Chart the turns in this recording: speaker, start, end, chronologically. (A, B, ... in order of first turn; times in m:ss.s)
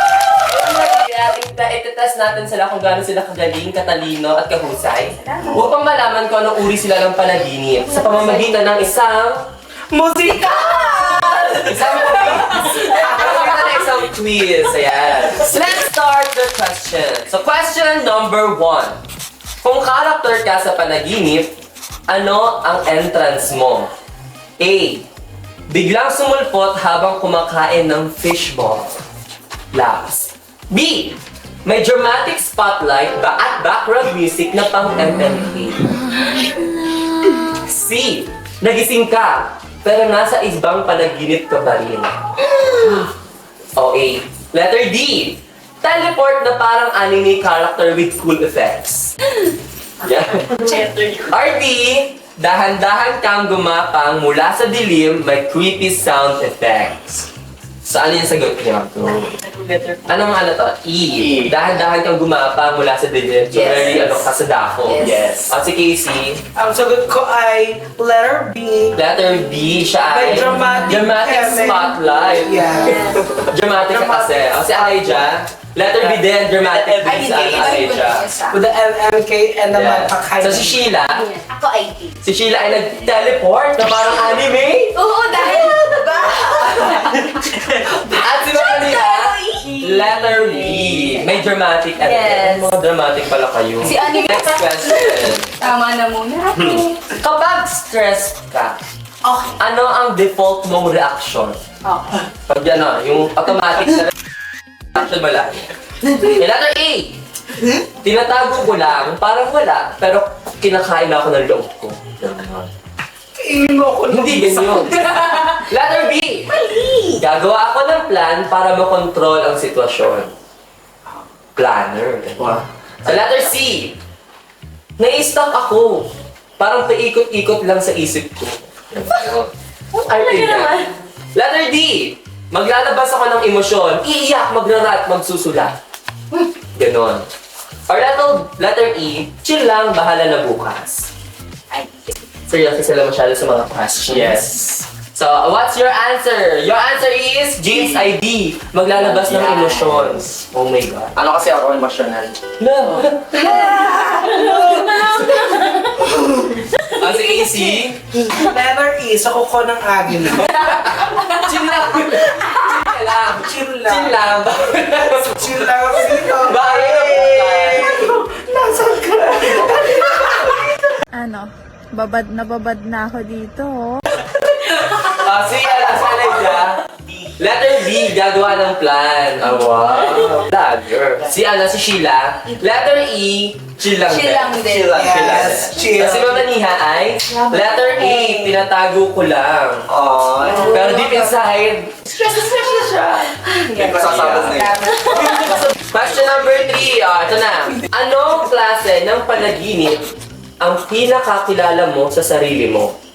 0:00.4-0:09.5 A
0:09.9-0:13.1 B
0:11.6-0:19.0 A
0:19.6-0:21.6 A
0:22.1-0:23.9 A
0:24.6-0:25.1 A
0:25.7-0:29.0 A
0:29.7-0:35.8 A
0:37.5-0:42.2 A
0:43.8-0:49.1 A
0:50.0-0:50.7 A
0:50.6-0:51.1 C
0:51.3-0:57.3 A
0:57.8-0:59.4 A
1:00.0-1:06.4 A
1:01.2-1:01.6 D
1:03.5-1:04.0 C
1:04.9-1:05.3 C
1:05.0-1:05.5 D
1:06.6-1:09.0 B
1:09.0-1:12.7 A
1:10.1-1:13.1 B
1:12.8-1:13.2 C
1:13.3-1:18.3 A
1:13.9-1:15.2 B
1:16.8-1:17.1 B
1:17.0-1:18.6 C
1:18.5-1:20.8 B
1:19.7-1:21.3 A
1:21.2-1:22.1 C
1:22.2-1:25.0 A
1:25.0-1:27.5 C
1:25.4-1:26.6 E
1:28.0-1:35.6 A
1:28.5-1:31.4 C
1:32.0-1:32.7 C
1:33.8-1:37.0 C
1:36.5-1:38.8 A
1:39.6-1:41.6 A
1:41.8-1:42.1 C
1:42.5-1:44.1 A
1:44.9-1:47.2 A
1:48.0-1:52.6 A
1:52.3-1:52.6 D
1:53.4-1:55.3 B
1:54.1-1:56.6 A
1:56.5-1:57.2 C
1:57.1-2:00.3 A
2:01.6-2:04.0 A
2:02.4-2:02.6 D
2:05.0-2:15.8 A
2:10.1-2:10.9 C
2:16.8-2:17.3 A
2:17.9-2:21.1 A
2:22.5-2:31.1 A
2:24.1-2:24.5 D
2:28.9-2:30.2 D
2:31.2-2:32.4 D
2:32.6-2:33.8 A
2:33.4-2:35.2 B
2:35.3-2:35.6 C
2:36.0-2:36.6 B
2:36.9-2:38.0 A
2:38.2-2:40.6 B
2:40.6-2:45.7 A
2:43.3-2:44.3 B
2:45.0-2:50.7 B
2:46.4-2:48.2 A
2:51.1-2:54.0 E
2:54.7-2:56.8 A
2:57.4-3:09.9 A
3:04.1-3:05.0 C
3:04.6-3:05.6 D
3:04.8-3:06.4 B
3:07.3-3:08.5 C
3:09.9-3:10.8 D
3:10.5-3:11.2 C
3:10.6-3:12.0 A
3:12.1-3:15.6 C
3:13.8-3:14.9 D
3:14.0-3:14.6 A
3:15.1-3:20.0 A
3:20.6-3:23.0 A